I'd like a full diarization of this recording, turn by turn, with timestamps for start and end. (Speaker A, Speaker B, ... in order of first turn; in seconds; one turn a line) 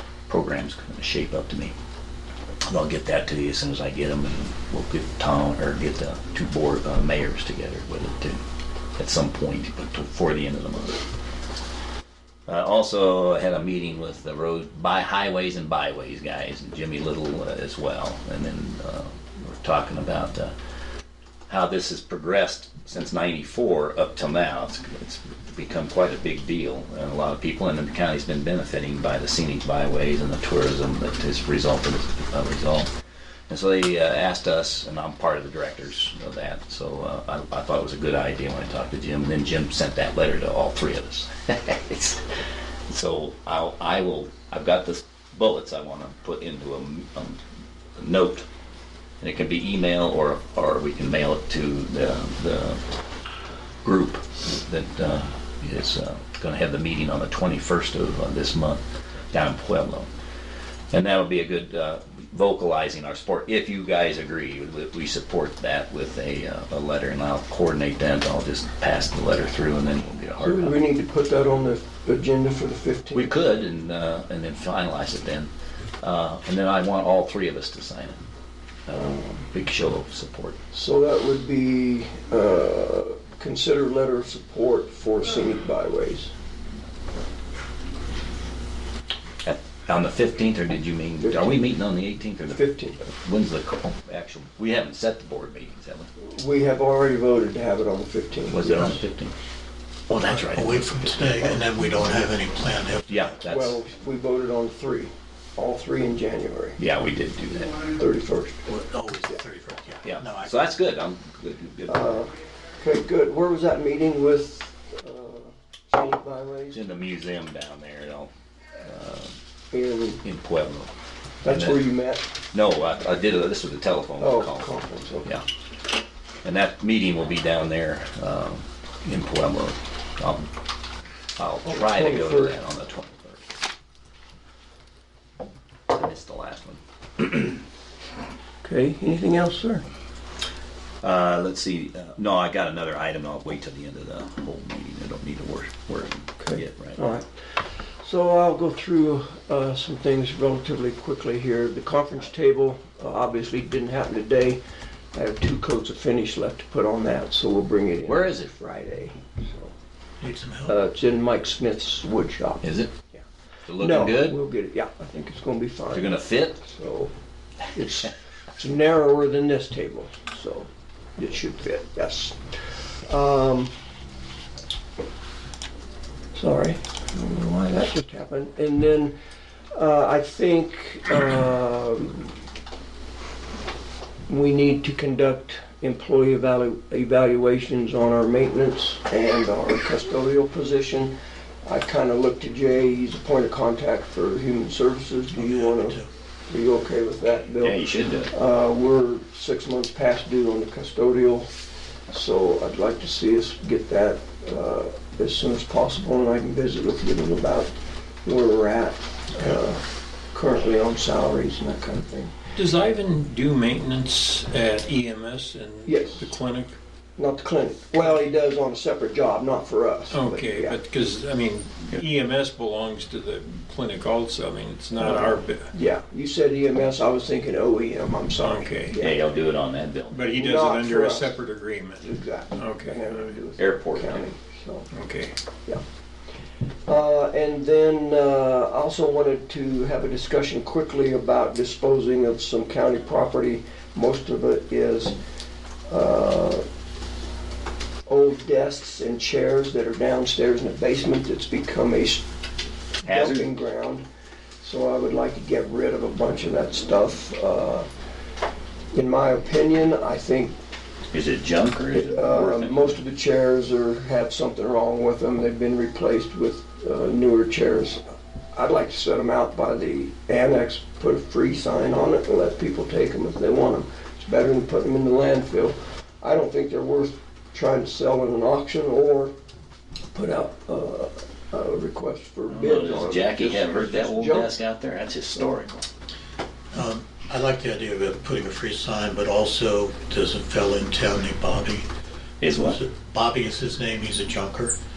Speaker A: 0.3-1.8
Speaker A: 2.7-8.4
Speaker A: 9.0-11.0
Speaker A: 12.5-20.5
Speaker A: 21.5-32.9
Speaker A: 33.5-42.3
Speaker A: 42.9-47.4
Speaker A: 48.0-48.5
Speaker A: 49.2-52.8
Speaker A: 53.8-60.1
Speaker A: 60.9-70.8
Speaker B: 70.4-73.3
Speaker A: 73.1-75.5
Speaker A: 76.0-78.2
Speaker A: 78.9-80.6
Speaker B: 80.7-86.3
Speaker A: 89.4-96.1
Speaker B: 91.2-91.6
Speaker B: 92.5-93.0
Speaker B: 96.2-99.0
Speaker A: 98.5-99.3
Speaker A: 100.1-101.6
Speaker C: 100.1-103.3
Speaker A: 103.1-103.8
Speaker B: 103.5-106.8
Speaker A: 106.8-107.8
Speaker B: 107.8-108.6
Speaker C: 108.7-110.6
Speaker A: 110.0-112.3
Speaker B: 111.9-116.8
Speaker A: 116.7-119.4
Speaker B: 119.7-120.2
Speaker A: 120.2-120.9
Speaker B: 121.4-122.3
Speaker A: 121.5-121.8
Speaker A: 122.5-125.5
Speaker B: 124.2-125.4
Speaker A: 126.4-130.5
Speaker A: 131.4-133.5
Speaker B: 131.7-132.6
Speaker A: 135.9-137.6
Speaker B: 138.6-139.9
Speaker A: 141.0-147.0
Speaker B: 146.4-147.3
Speaker B: 148.0-154.6
Speaker B: 155.1-159.7
Speaker A: 158.1-158.5
Speaker C: 160.2-160.8
Speaker B: 160.7-163.2
Speaker A: 162.6-162.9
Speaker A: 163.7-164.4
Speaker B: 163.8-167.1
Speaker A: 165.9-166.6
Speaker B: 167.7-173.7
Speaker B: 176.3-179.2
Speaker B: 179.7-182.3
Speaker B: 184.3-191.1
Speaker B: 191.7-201.5
Speaker C: 195.4-196.1
Speaker A: 197.6-198.3
Speaker B: 202.1-207.7
Speaker B: 208.2-212.3
Speaker D: 212.6-216.8
Speaker B: 215.8-216.3
Speaker B: 217.2-220.8
Speaker D: 220.1-225.7
Speaker B: 225.0-229.2
Speaker D: 228.4-229.0
Speaker A: 228.9-230.3
Speaker D: 230.1-233.2
Speaker B: 230.3-231.4
Speaker B: 232.0-234.9
Speaker A: 233.6-234.3
Speaker D: 234.9-235.3
Speaker B: 236.9-245.2
Speaker B: 245.9-246.7
Speaker B: 248.1-252.2
Speaker B: 253.0-254.1
Speaker A: 253.0-253.5
Speaker B: 254.6-257.9
Speaker B: 258.9-260.6
Speaker A: 261.1-263.0
Speaker B: 261.9-279.3
Speaker B: 280.1-284.5
Speaker A: 282.5-285.9
Speaker C: 286.7-291.9
Speaker A: 292.4-292.8
Speaker C: 292.5-294.8